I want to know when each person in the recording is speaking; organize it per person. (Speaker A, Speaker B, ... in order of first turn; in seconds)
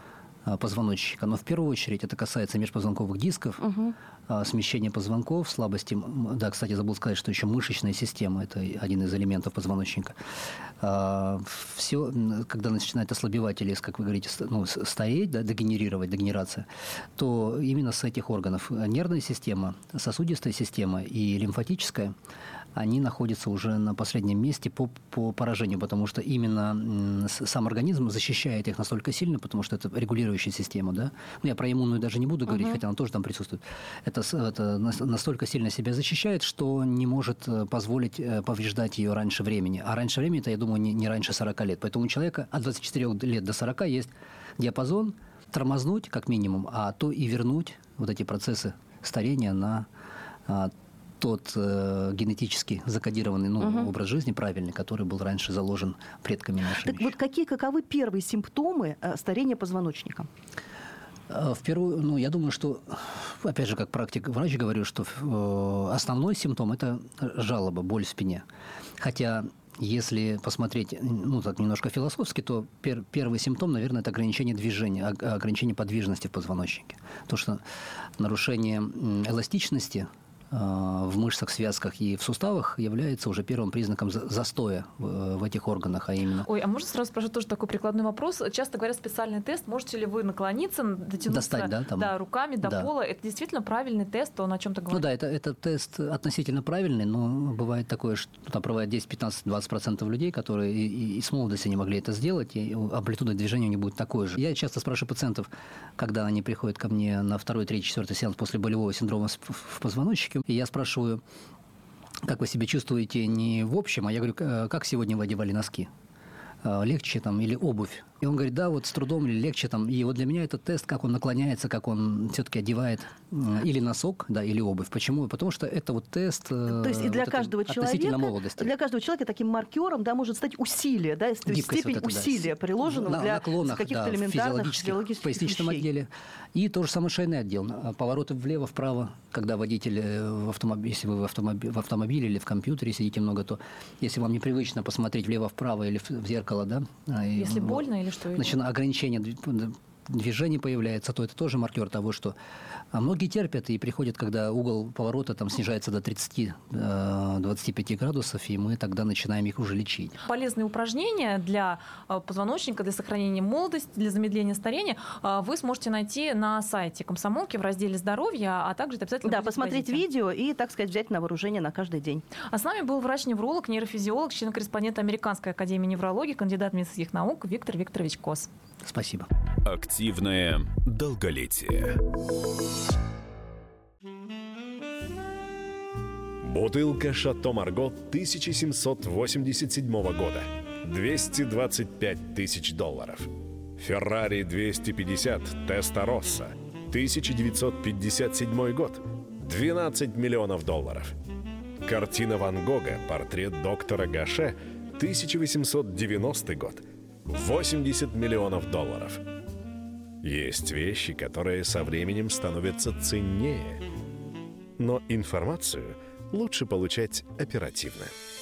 Speaker A: 0.4-3.7, 4.3-10.2, 10.8-16.6, 17.2-22.1, 22.7-49.9, 50.5-57.1, 61.3-68.4, 69.0-77.6, 78.2-86.5, 91.3-92.1, 92.6-92.9, 94.9-111.2, 112.2-115.9, 116.6-128.7, 131.4-152.3, 152.9-160.1, 178.8-179.3
Speaker B: 3.6-3.9, 53.6-53.9, 56.8-60.3, 126.7-135.8, 169.2-172.2
Speaker C: 86.4-95.1, 147.3-148.6, 160.2-170.0, 172.5-178.5
Speaker D: 179.6-182.0
Speaker E: 186.4-201.1, 201.8-209.2, 210.2-213.8, 214.8-218.1